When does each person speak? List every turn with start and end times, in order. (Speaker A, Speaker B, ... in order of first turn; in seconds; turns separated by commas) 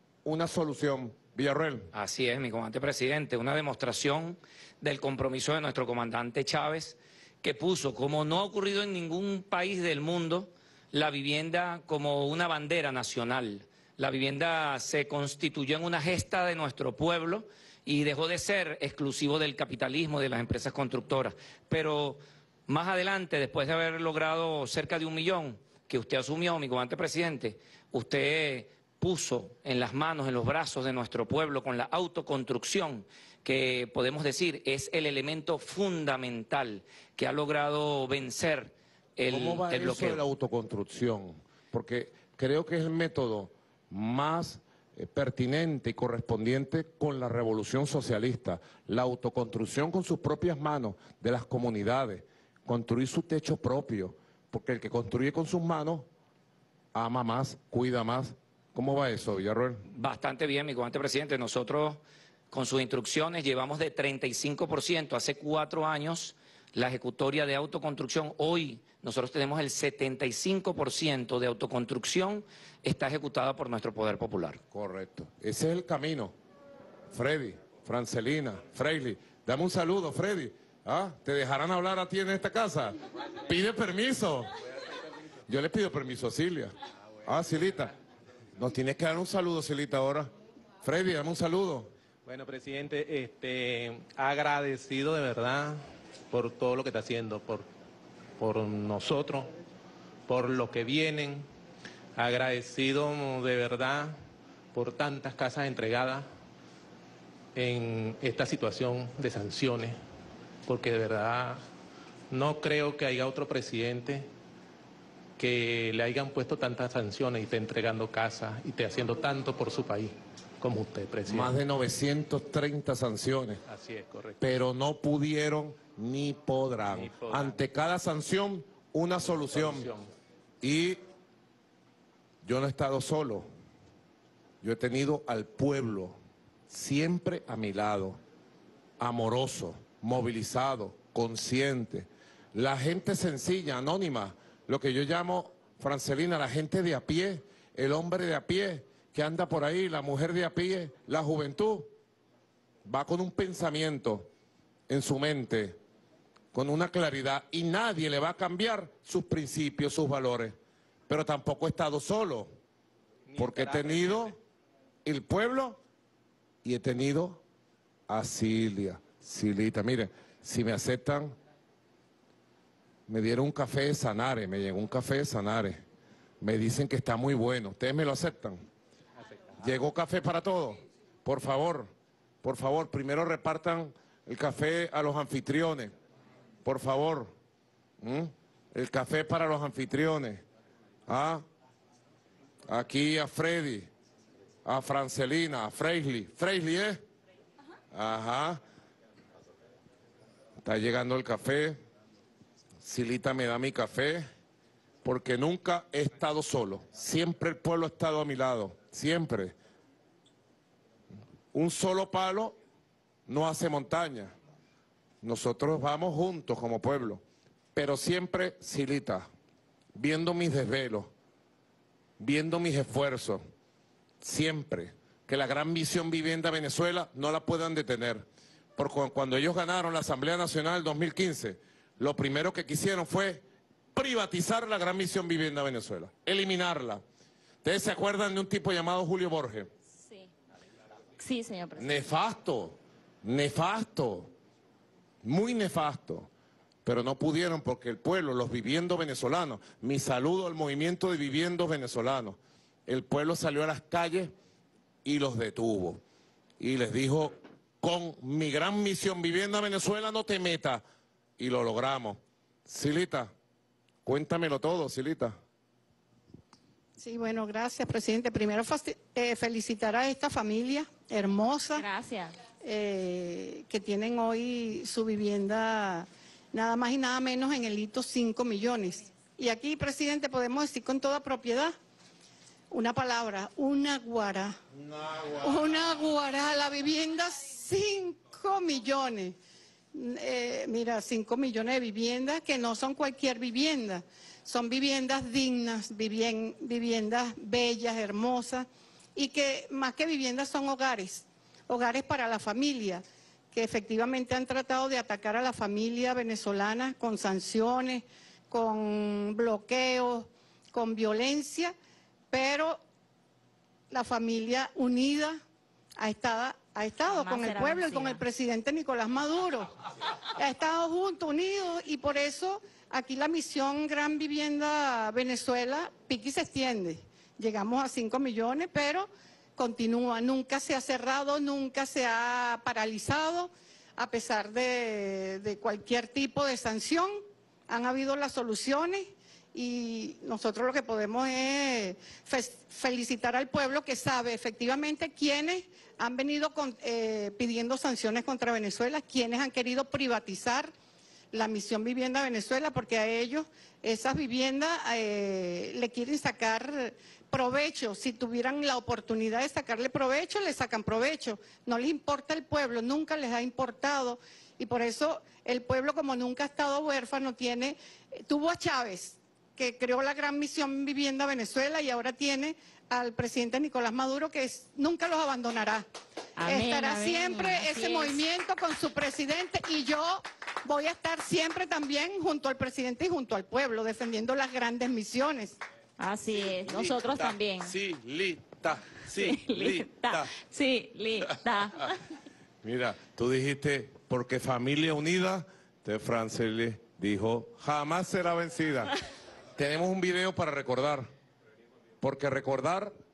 Speaker A: 0.2-1.9, Speaker B: 1.9-40.2, Speaker A: 39.3-56.1, Speaker A: 56.9-59.9, Speaker B: 59.9-74.6, Speaker A: 74.7-76.3, Speaker A: 77.1-84.5, Speaker A: 85.5-87.9, Speaker A: 88.5-90.3, Speaker A: 90.8-91.9, Speaker C: 92.2-97.7, Speaker C: 98.4-99.5, Speaker C: 100.3-101.5, Speaker C: 102.2-104.2, Speaker C: 104.7-106.3, Speaker C: 107.5-110.0, Speaker C: 110.7-111.6, Speaker C: 112.3-114.3, Speaker C: 115.4-121.5, Speaker A: 121.2-123.6, Speaker C: 123.7-124.4, Speaker A: 124.4-129.9, Speaker C: 126.9-127.6, Speaker C: 129.5-130.1, Speaker A: 130.6-131.0, Speaker A: 132.4-133.5, Speaker A: 134.6-136.2, Speaker A: 136.7-138.2, Speaker A: 139.0-151.9, Speaker A: 152.8-154.3, Speaker A: 154.9-155.8, Speaker A: 156.5-160.6, Speaker A: 161.1-162.5, Speaker C: 163.3-164.4, Speaker A: 163.3-164.4, Speaker A: 165.0-165.8, Speaker A: 166.6-167.4, Speaker A: 168.1-171.3, Speaker A: 173.1-175.8, Speaker A: 176.4-178.6, Speaker A: 179.6-181.9, Speaker A: 182.4-185.9, Speaker A: 186.6-187.3, Speaker A: 188.0-190.4, Speaker A: 191.1-191.4, Speaker A: 192.7-193.9, Speaker A: 194.6-197.0, Speaker A: 197.9-198.6, Speaker A: 200.6-201.8, Speaker A: 202.8-204.2, Speaker A: 205.0-209.5, Speaker A: 211.5-212.6, Speaker A: 213.2-214.3, Speaker A: 215.2-217.2, Speaker A: 217.7-219.3, Speaker A: 219.9-221.1, Speaker A: 222.2-223.4, Speaker A: 224.2-228.2, Speaker A: 228.8-237.0, Speaker A: 237.6-239.7, Speaker D: 240.0-240.3, Speaker D: 241.2-242.0, Speaker A: 241.8-244.3, Speaker A: 245.2-246.3, Speaker A: 246.8-254.3, Speaker A: 255.0-256.0, Speaker A: 256.6-260.8, Speaker A: 261.4-263.3, Speaker A: 264.0-265.4, Speaker E: 267.0-271.8, Speaker D: 271.7-272.4, Speaker E: 272.6-281.7, Speaker E: 282.7-284.6, Speaker A: 285.1-285.4, Speaker E: 285.4-289.4, Speaker E: 289.9-311.7, Speaker E: 312.3-312.8, Speaker E: 313.9-315.4, Speaker E: 316.0-319.7, Speaker D: 317.1-318.2, Speaker E: 320.4-350.7, Speaker E: 351.3-375.9, Speaker D: 376.4-378.2, Speaker E: 376.4-385.6, Speaker D: 386.0-387.8, Speaker C: 387.7-389.9, Speaker D: 389.1-392.0, Speaker A: 392.6-398.9, Speaker A: 399.6-401.1, Speaker A: 402.0-402.9